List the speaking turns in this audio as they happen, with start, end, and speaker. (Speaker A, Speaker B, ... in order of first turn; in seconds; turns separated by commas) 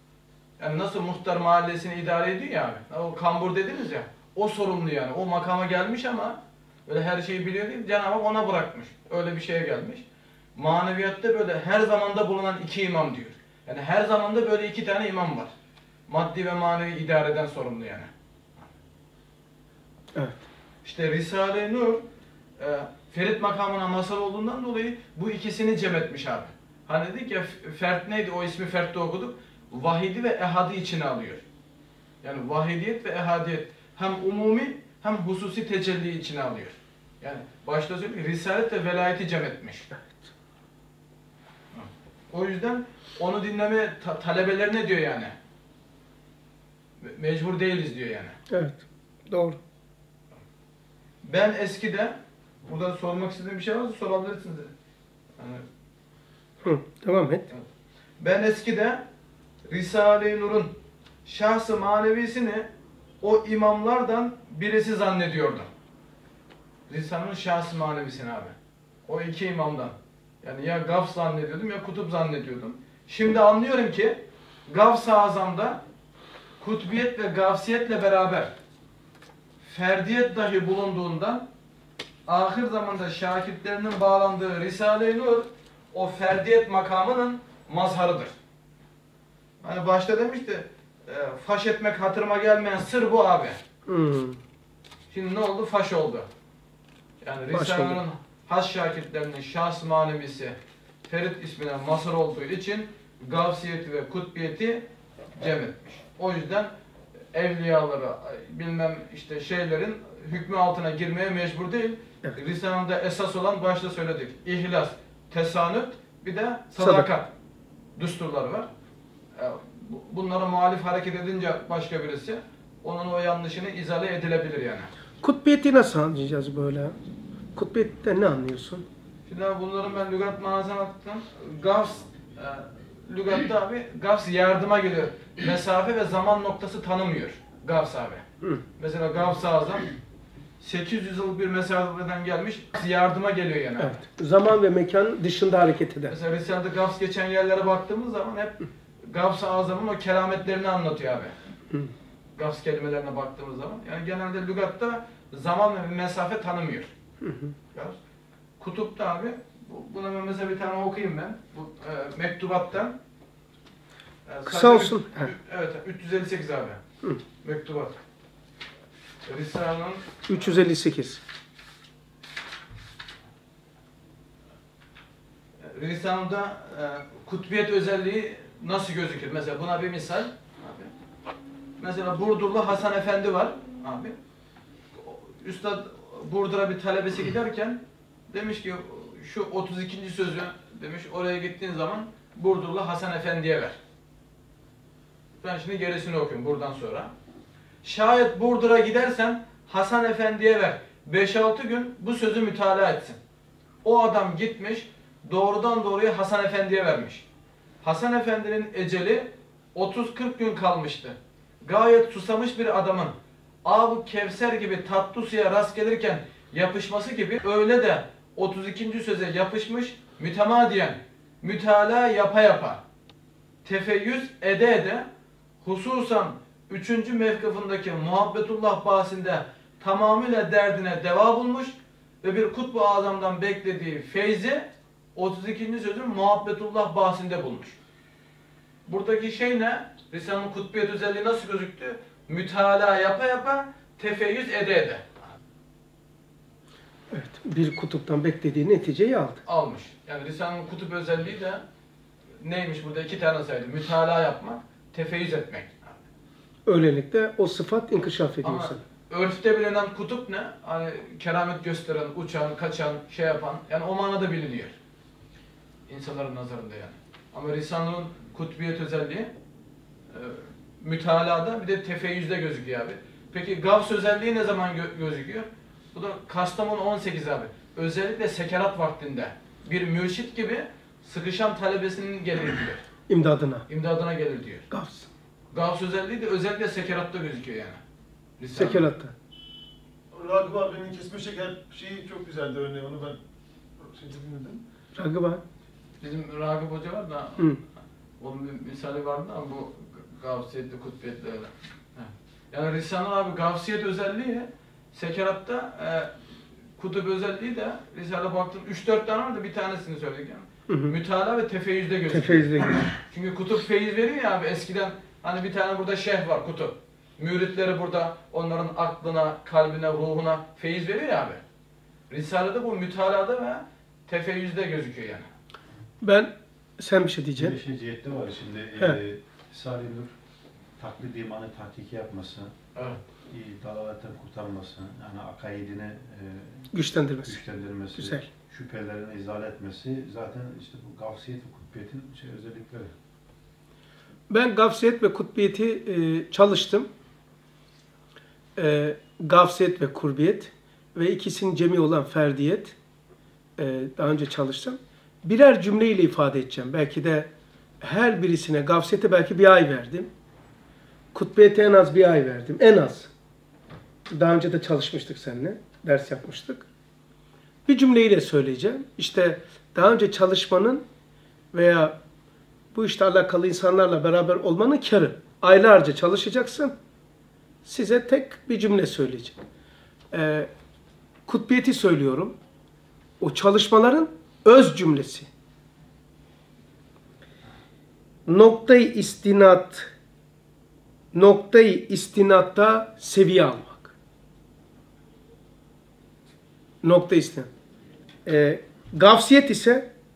Speaker A: 0.6-10.0, Speaker A: 10.6-15.5, Speaker A: 16.1-18.1, Speaker B: 20.1-20.4, Speaker A: 20.8-22.0, Speaker A: 22.6-31.4, Speaker A: 32.2-39.9, Speaker A: 41.7-45.3, Speaker A: 47.0-48.4, Speaker B: 48.5-49.6, Speaker A: 51.2-54.7, Speaker A: 55.4-55.6, Speaker B: 56.6-57.5, Speaker A: 58.2-59.0, Speaker A: 59.7-62.7, Speaker A: 63.2-65.7, Speaker A: 66.9-68.5, Speaker A: 69.0-75.8, Speaker A: 76.6-78.5, Speaker A: 79.6-81.5, Speaker A: 82.3-88.3, Speaker A: 89.6-93.6, Speaker B: 93.9-94.4, Speaker A: 95.1-96.3, Speaker A: 97.2-104.8, Speaker B: 97.5-98.0, Speaker A: 105.4-106.7, Speaker A: 107.3-117.3, Speaker B: 116.8-117.1, Speaker A: 118.0-118.7, Speaker A: 119.3-124.9, Speaker B: 125.2-126.9, Speaker B: 127.5-128.8, Speaker A: 129.2-138.2, Speaker A: 138.8-139.9, Speaker A: 140.6-144.0, Speaker B: 143.8-146.2, Speaker A: 146.1-151.3, Speaker A: 152.3-156.9, Speaker B: 157.2-157.5, Speaker A: 158.6-163.0, Speaker A: 164.2-166.8, Speaker B: 164.4-165.3, Speaker A: 167.4-167.9, Speaker A: 169.2-170.5, Speaker B: 170.3-171.2, Speaker A: 175.7-180.9, Speaker A: 181.8-184.2, Speaker A: 185.0-193.8, Speaker A: 195.4-197.1, Speaker A: 197.8-203.2, Speaker A: 203.8-207.2, Speaker A: 207.8-222.8, Speaker A: 223.6-225.1, Speaker A: 225.6-237.8, Speaker A: 238.8-245.0, Speaker B: 247.1-249.4, Speaker A: 249.4-251.6, Speaker A: 252.4-256.0, Speaker B: 256.6-258.8, Speaker A: 258.4-264.7, Speaker A: 265.9-269.3, Speaker A: 270.1-282.8, Speaker B: 283.1-283.6, Speaker A: 283.7-284.6, Speaker B: 284.7-285.1, Speaker A: 285.5-287.8, Speaker A: 288.4-288.9, Speaker B: 288.5-289.1, Speaker C: 290.1-293.2, Speaker C: 293.8-294.6, Speaker B: 294.9-295.4, Speaker A: 296.0-297.5, Speaker A: 298.2-306.1, Speaker A: 306.8-321.4, Speaker B: 310.7-310.9, Speaker B: 312.1-312.9, Speaker A: 322.1-325.3, Speaker B: 326.0-327.6, Speaker D: 327.4-330.1, Speaker D: 330.8-332.5, Speaker A: 332.7-333.0, Speaker D: 333.3-336.7, Speaker B: 336.7-337.4, Speaker D: 337.2-342.9, Speaker B: 338.0-338.2, Speaker B: 344.3-346.9, Speaker B: 348.6-352.7, Speaker B: 353.6-357.3, Speaker B: 357.8-360.1, Speaker B: 361.1-363.1, Speaker B: 364.1-366.6, Speaker B: 367.6-370.8, Speaker B: 371.5-371.9, Speaker B: 372.7-376.7, Speaker B: 377.6-379.4, Speaker B: 380.1-380.5, Speaker B: 381.2-382.3, Speaker B: 383.2-385.3, Speaker B: 388.3-389.9, Speaker B: 391.1-393.9, Speaker B: 396.8-397.5, Speaker B: 398.2-399.9